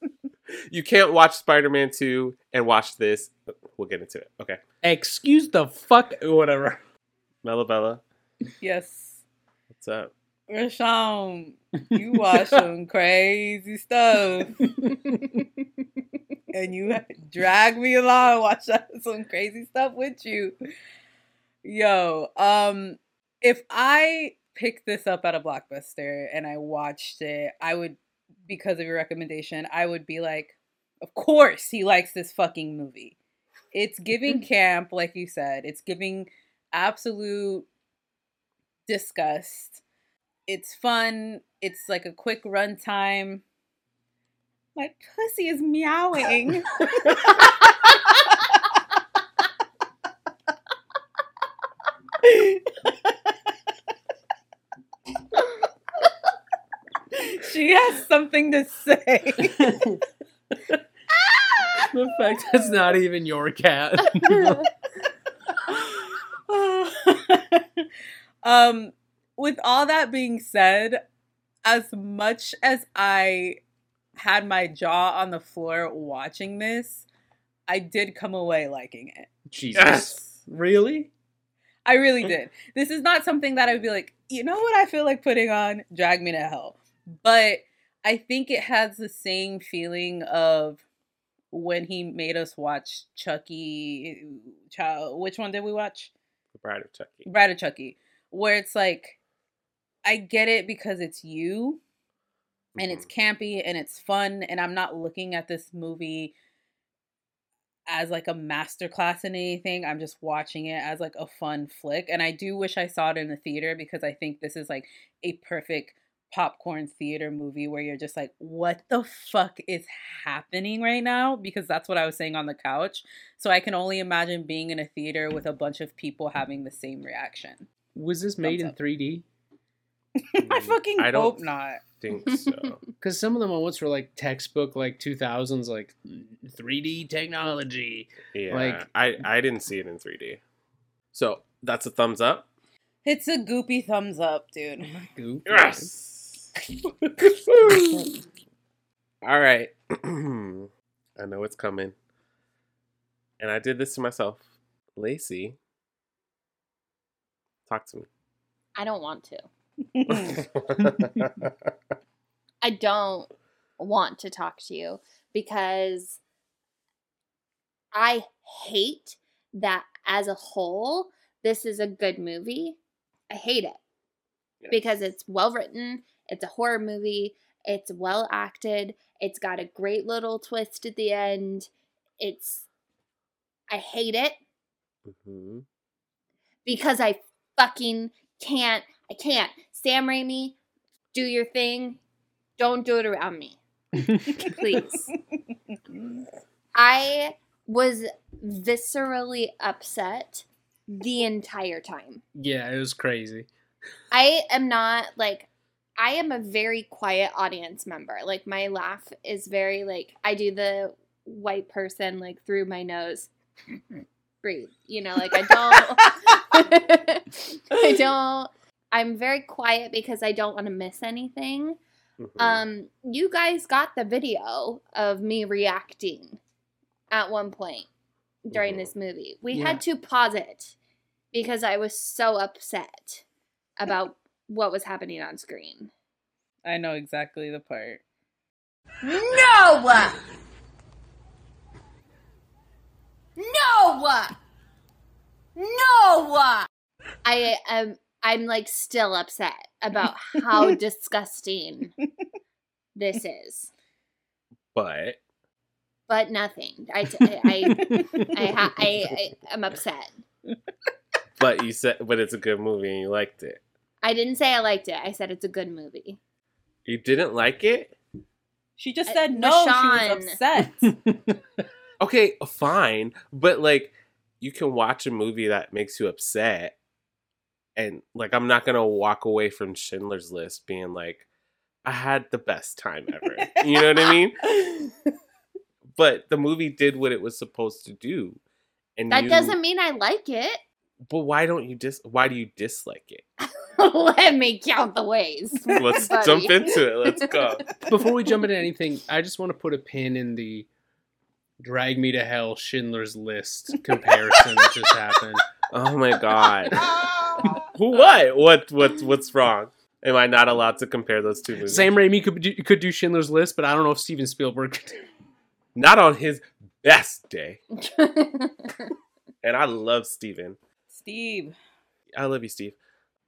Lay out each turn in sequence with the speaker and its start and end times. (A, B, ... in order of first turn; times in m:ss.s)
0:00.7-0:04.6 A
0:04.8-0:06.8 B
0:07.4-0:08.0 A
0:08.6-0:09.2 C
0:09.7-0:10.1 A
0:10.5-0:14.7 C
0:12.0-0:12.7 B
0:14.6-0:15.4 B
0:16.5-0:20.5 C
0:21.6-0:33.2 C
0:33.7-0:37.7 C
0:38.9-0:39.8 C
0:40.5-0:43.4 C
0:44.8-0:47.7 C
0:52.2-0:52.7 C
0:57.1-0:59.7 C
0:59.4-1:00.0 B
1:01.9-1:04.7 B
1:05.7-1:07.9 C
1:08.4-1:11.0 C
1:11.6-1:13.6 C
1:14.2-1:17.0 C
1:17.7-1:19.3 C
1:19.5-1:21.1 B
1:19.8-1:20.3 A
1:21.8-1:30.8 C
1:31.5-1:36.1 C
1:36.6-1:37.3 A
1:37.3-1:39.2 C
1:40.0-1:41.8 C
1:42.7-1:43.1 A
1:42.8-1:46.3 C
1:47.9-2:07.7 C
2:07.9-2:09.2 B
2:08.4-2:08.7 C
2:10.2-2:11.8 C
2:10.4-2:12.8 A
2:13.0-2:18.8 B
2:18.3-2:20.4 A
2:21.1-2:22.5 A
2:23.0-2:24.9 C
2:24.8-2:25.9 B
2:25.5-2:26.5 A
2:27.2-2:28.1 A
2:29.2-2:31.9 A
2:33.4-2:34.4 A
2:35.0-2:35.6 A
2:37.7-2:38.1 A
2:38.8-2:39.4 D
2:39.9-2:40.4 C
2:40.1-2:41.5 A
2:42.6-2:46.2 D
2:47.9-2:52.8 D
2:53.3-2:53.8 D
2:54.6-2:55.1 A
2:54.7-3:01.7 D
3:02.2-3:02.6 D
3:03.7-3:04.4 D
3:05.1-3:05.6 A
3:06.6-3:10.6 D
3:11.1-3:12.0 D
3:12.6-3:13.6 D
3:14.1-3:14.4 B
3:14.3-3:15.1 D
3:16.7-3:22.2 D
3:22.3-3:23.5 B
3:24.1-3:33.3 D
3:34.4-3:41.8 D
3:42.2-3:42.6 A
3:42.4-3:46.4 D
3:47.1-3:47.9 D
3:48.4-3:50.8 D
3:48.5-3:48.9 A
3:49.5-3:49.8 B
3:51.3-3:53.2 D
3:53.8-3:55.9 D
3:56.6-3:58.0 C
3:59.0-4:00.1 D
4:03.4-4:04.3 D
4:05.6-4:06.6 D
4:07.2-4:11.9 D
4:13.0-4:13.7 D
4:14.7-4:15.2 A
4:16.1-4:20.1 D
4:17.9-4:18.2 B
4:21.4-4:23.6 A
4:24.0-4:26.2 D
4:26.8-4:28.0 A
4:28.8-4:30.9 C
4:29.1-4:30.4 D
4:30.8-4:31.4 B
4:32.0-4:36.7 A
4:37.8-4:41.3 A
4:41.8-4:44.5 A
4:43.7-4:44.8 C
4:46.0-4:48.4 A
4:49.0-4:49.6 A
4:49.1-4:50.6 D
4:51.1-4:53.2 A
4:53.4-4:56.7 D
4:55.7-4:57.7 A
4:57.9-5:00.7 B
5:01.6-5:05.4 B
5:04.1-5:04.4 C
5:05.7-5:06.9 A
5:07.7-5:11.9 A
5:11.6-5:15.0 B
5:15.8-5:17.6 A
5:17.8-5:18.8 D
5:19.4-5:20.6 A
5:20.9-5:21.6 C
5:22.1-5:22.8 A